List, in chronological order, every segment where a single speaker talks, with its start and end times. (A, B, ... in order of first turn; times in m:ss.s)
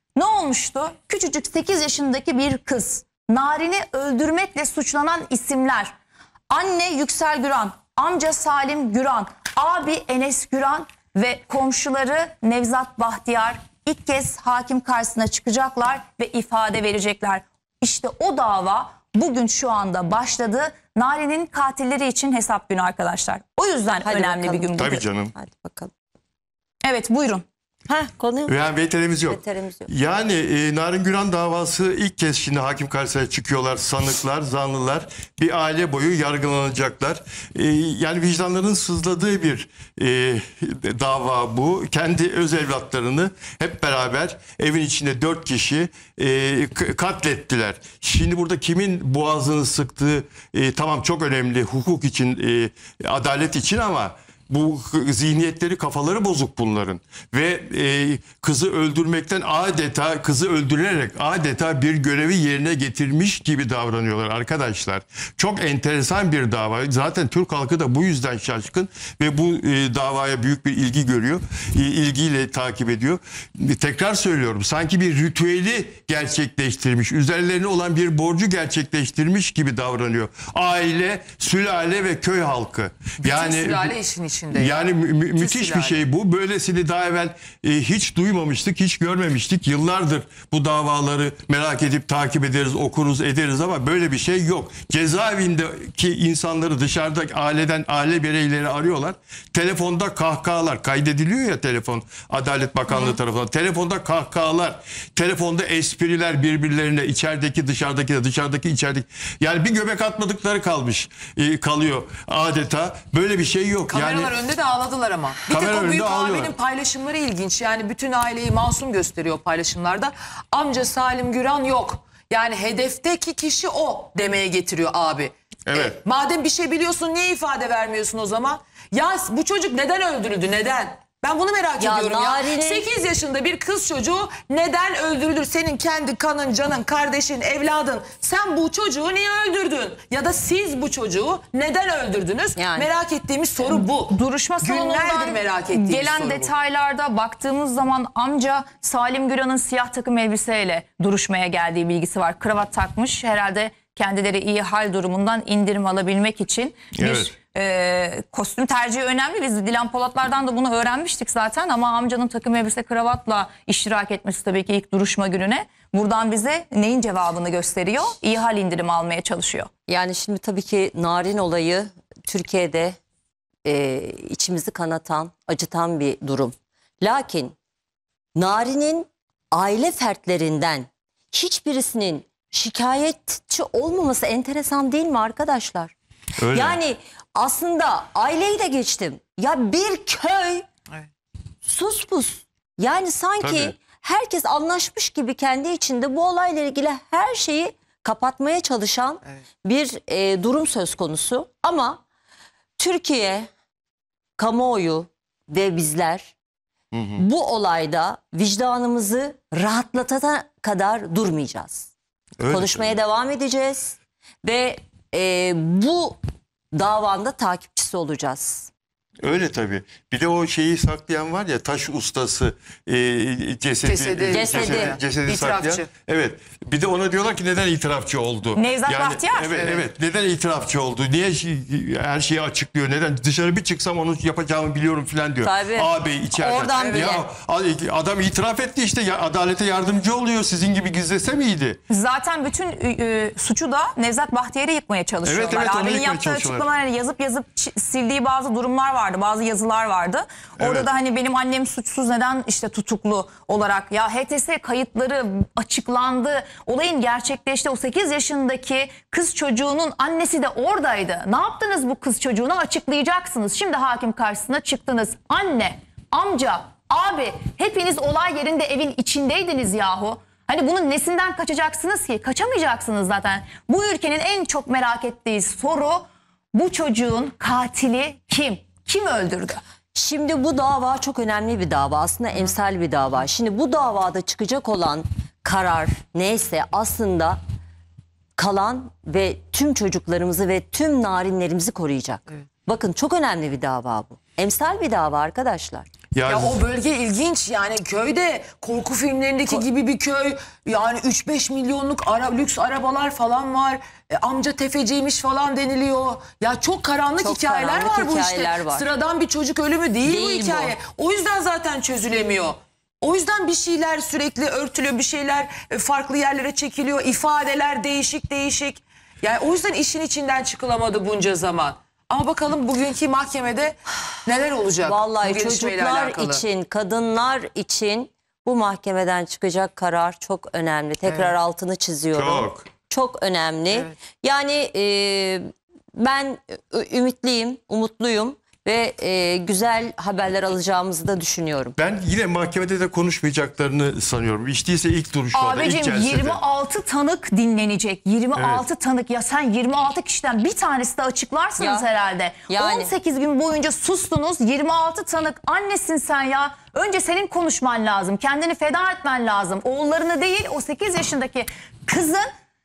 0:00.2-0:05.9 A
0:06.5-0:25.0 A
0:24.0-0:25.9 B
0:24.8-0:25.3 C
0:26.8-0:27.4 A
0:27.9-0:28.5 B
0:28.5-1:24.0 C
0:29.3-0:29.9 B
1:23.2-1:26.0 D
1:24.5-1:54.3 C
1:53.9-2:26.5 D
1:55.5-1:56.6 C
2:05.7-2:06.0 C
2:11.8-2:12.8 B
2:22.6-2:22.9 B
2:23.7-2:49.7 A
2:36.9-2:37.3 C
2:49.9-2:53.0 B
2:53.6-2:57.6 B
2:58.4-3:05.9 B
3:06.4-3:06.8 C
3:06.5-3:10.7 B
3:11.6-3:22.0 B
3:13.4-3:13.8 C
3:22.8-3:23.5 B
3:24.4-3:26.3 B
3:26.9-3:27.2 C
3:27.2-3:31.9 B
3:32.4-3:33.0 C
3:32.5-3:36.2 B
3:36.7-3:38.7 B
3:39.2-4:01.8 C
3:43.8-3:45.9 D
3:44.3-3:44.9 B
3:48.5-3:49.6 A
3:49.5-3:49.8 D
3:55.4-3:57.2 B
3:56.8-3:57.2 D
4:01.9-4:39.6 A
4:05.2-4:06.7 C
4:10.6-4:10.9 C
4:40.0-4:47.4 B
4:48.4-4:55.9 B
4:56.1-4:56.6 C
4:56.3-5:26.4 D
5:07.2-5:08.9 B
5:10.0-5:10.8 B
5:24.8-5:41.8 B
5:32.1-5:32.7 C
5:41.8-5:46.4 C
5:45.3-6:02.2 A
5:48.4-5:48.7 C
5:51.6-5:51.9 B
5:52.5-5:52.9 B